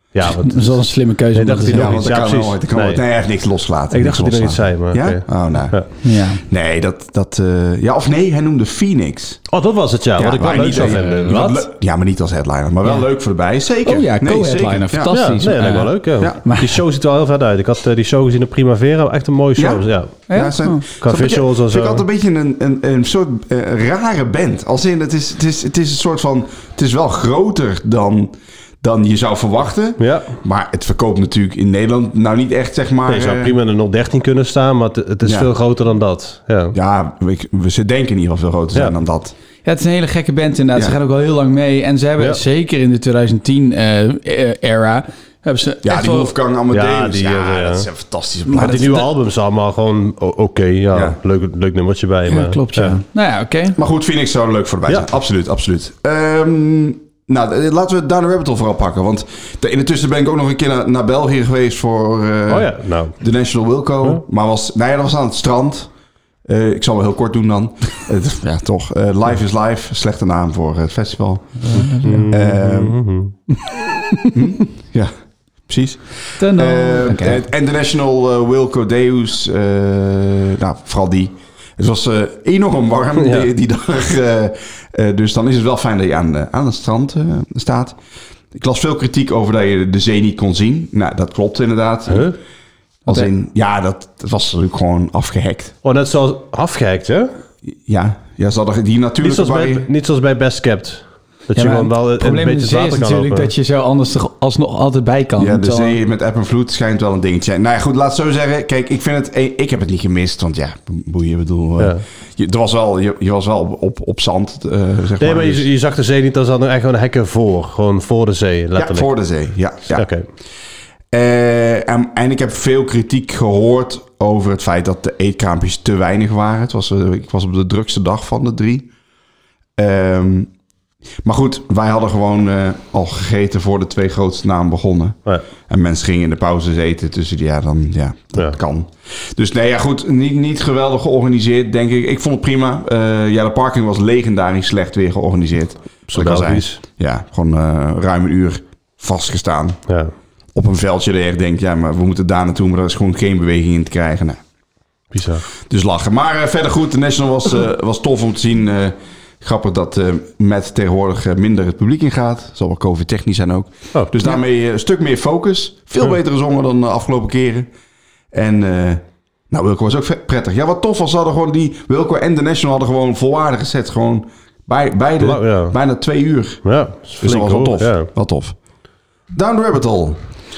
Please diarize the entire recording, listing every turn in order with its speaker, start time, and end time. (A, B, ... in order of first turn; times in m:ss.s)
0:00.1-0:03.3 A
0:00.4-0:02.1 B
0:01.7-0:09.5 C
0:03.9-0:05.9 A
0:06.0-0:06.4 B
0:09.5-0:11.6 A
0:10.2-0:15.1 C
0:10.5-0:11.5 B
0:13.8-0:16.8 B
0:15.1-0:20.2 A
0:19.6-0:33.6 C
0:20.3-0:20.8 B
0:20.9-0:22.0 A
0:30.0-0:30.4 A
0:33.1-0:36.8 A
0:35.2-0:35.5 C
0:36.7-0:39.4 C
0:39.6-0:46.3 B
0:45.8-0:49.0 C
0:46.7-0:47.9 A
0:48.5-0:49.0 B
0:48.5-0:53.0 A
0:50.9-0:51.2 C
0:52.3-0:53.8 B
0:53.8-1:05.9 C
1:02.5-1:03.2 A
1:06.5-1:13.0 C
1:11.6-1:12.3 B
1:12.0-1:13.3 A
1:13.8-1:14.4 B
1:14.3-1:15.1 C
1:15.7-1:28.0 C
1:16.4-1:17.4 B
1:23.2-1:23.5 A
1:28.5-1:32.3 C
1:32.1-1:32.4 A
1:33.1-1:35.7 C
1:35.8-1:37.3 A
1:37.7-1:39.9 C
1:39.2-1:43.5 A
1:41.6-1:46.0 B
1:45.4-1:55.6 C
1:51.8-1:52.0 A
1:55.2-1:59.1 A
1:58.8-2:00.1 C
1:59.9-2:00.3 A
2:01.1-2:08.9 C
2:09.8-2:10.5 C
2:11.2-2:29.8 C
2:26.1-2:26.8 A
2:29.9-2:30.1 A
2:30.5-2:34.4 C
2:35.1-2:35.4 A
2:35.7-2:47.7 C
2:48.3-2:56.7 C
2:55.2-2:55.8 A
2:56.6-2:58.1 A
2:57.2-2:58.6 C
2:59.3-3:00.2 C